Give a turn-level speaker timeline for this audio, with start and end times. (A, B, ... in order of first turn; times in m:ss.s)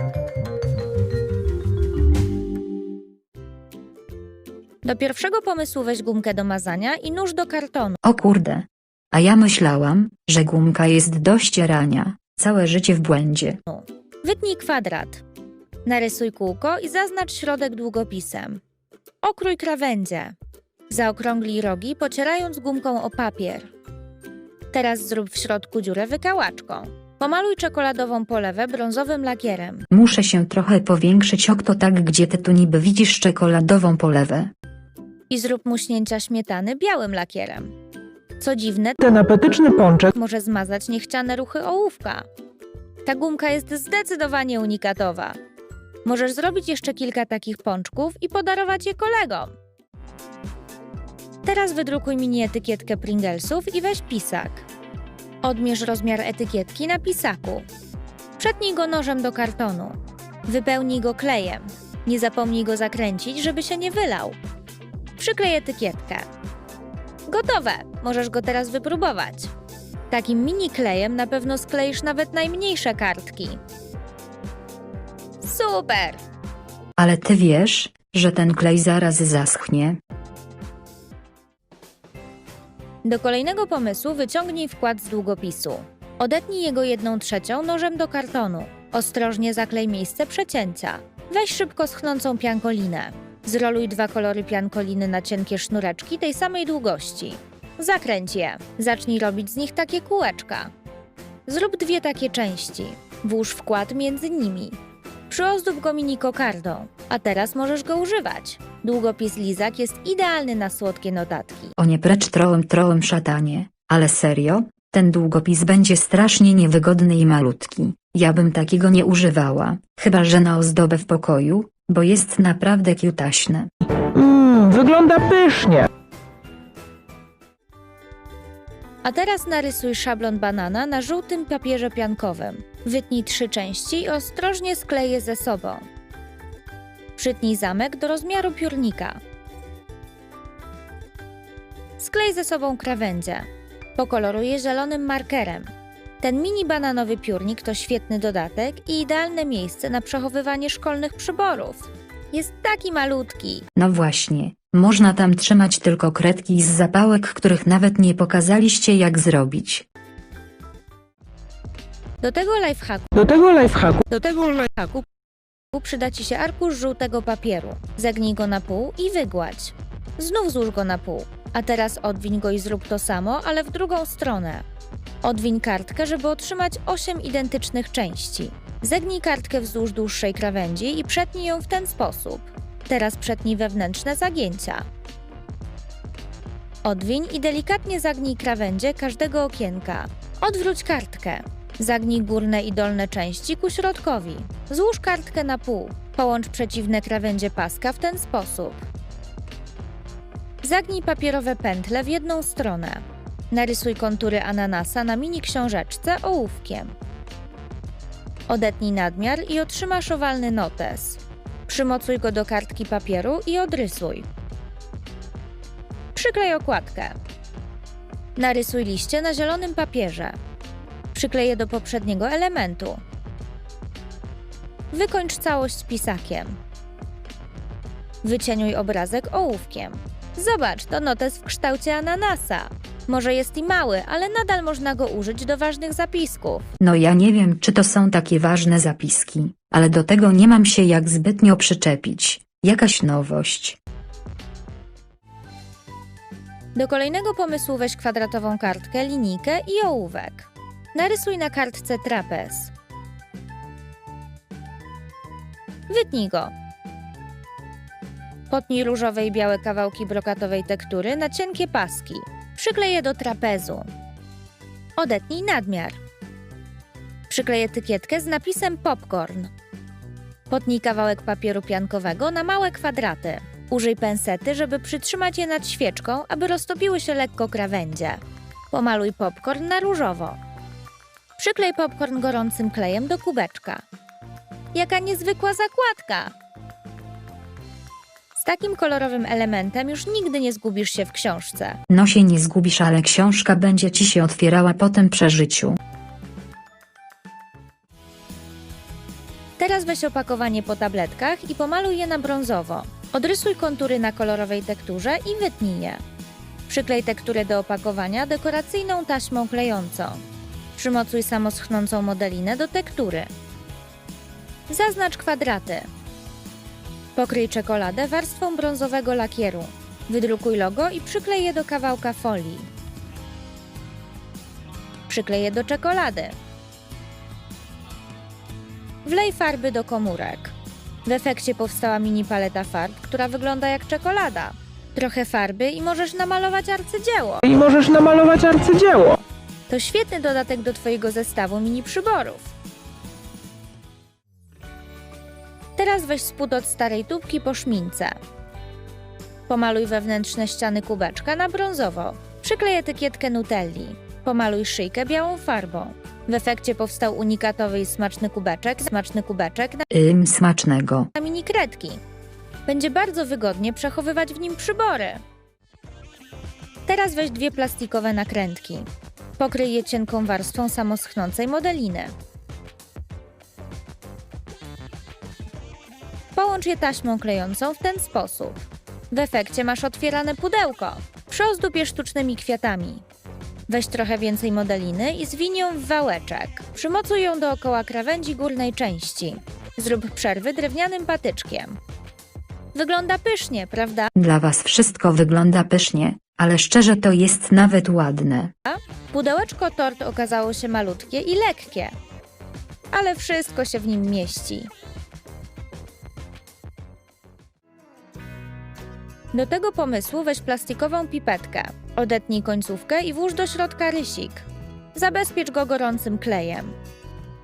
0:04.8-0:08.0 A
0:08.0-0:13.6 B
0:13.6-0:15.2 A
0:15.8-0:18.6 A
0:19.2-0:20.3 A
0:20.9-0:23.7 A
0:24.7-0:29.9 A
0:29.9-0:34.5 B
0:35.3-0:37.7 A
0:38.4-0:39.0 A
0:39.0-0:40.1 C
0:40.1-0:42.2 A
0:43.0-0:45.4 A
0:46.0-0:49.5 A
0:51.4-0:54.7 A
0:55.4-0:57.6 A
0:58.4-1:04.4 A
1:05.2-1:06.3 A
1:07.3-1:09.5 A
1:10.1-1:13.6 A
1:15.4-1:16.2 A
1:17.0-1:20.0 B
1:23.0-1:40.7 A
1:41.5-1:51.7 A
1:51.8-2:03.7 B
2:04.0-2:05.9 C
2:09.0-2:15.9 A
2:17.2-2:19.2 A
2:22.0-2:33.7 A
2:33.8-2:39.8 B
2:42.2-2:43.1 A
2:43.1-2:44.0 C
2:44.0-2:45.0 A
2:45.7-2:54.6 A
2:55.2-3:04.8 A
3:06.8-3:18.8 A
3:20.6-3:26.9 A
3:28.5-3:34.3 A
3:36.1-3:37.2 A
3:38.4-3:40.4 A
3:41.1-3:43.0 A
3:44.9-3:46.6 A
3:48.2-3:56.7 A
3:56.8-4:03.8 B
4:06.7-4:12.7 A
4:15.9-4:16.5 A
4:18.5-4:23.9 A
4:25.0-4:26.0 A
4:27.3-4:29.5 A
4:30.5-4:40.4 A
4:41.4-4:43.8 A
4:44.7-4:46.3 A
4:48.3-4:51.8 A
4:51.9-4:55.8 B
4:59.6-5:06.0 A
5:06.7-5:10.2 A
5:10.8-5:13.3 A
5:14.7-5:15.9 A
5:17.2-5:22.7 A
5:25.1-5:26.4 A
5:29.0-5:30.5 A
5:31.0-5:37.5 A
5:37.5-5:39.2 C
5:39.7-5:42.5 A
5:45.8-5:48.2 A
5:49.5-5:59.9 A
5:59.9-6:01.1 B
6:01.1-6:02.0 A
6:02.6-6:05.2 A
6:06.8-6:12.1 A
6:16.3-6:23.0 A
6:23.7-6:31.8 A
6:32.7-6:34.1 A
6:34.2-6:38.5 B
6:38.6-6:41.9 A
6:42.9-6:44.7 A
6:49.3-6:56.8 A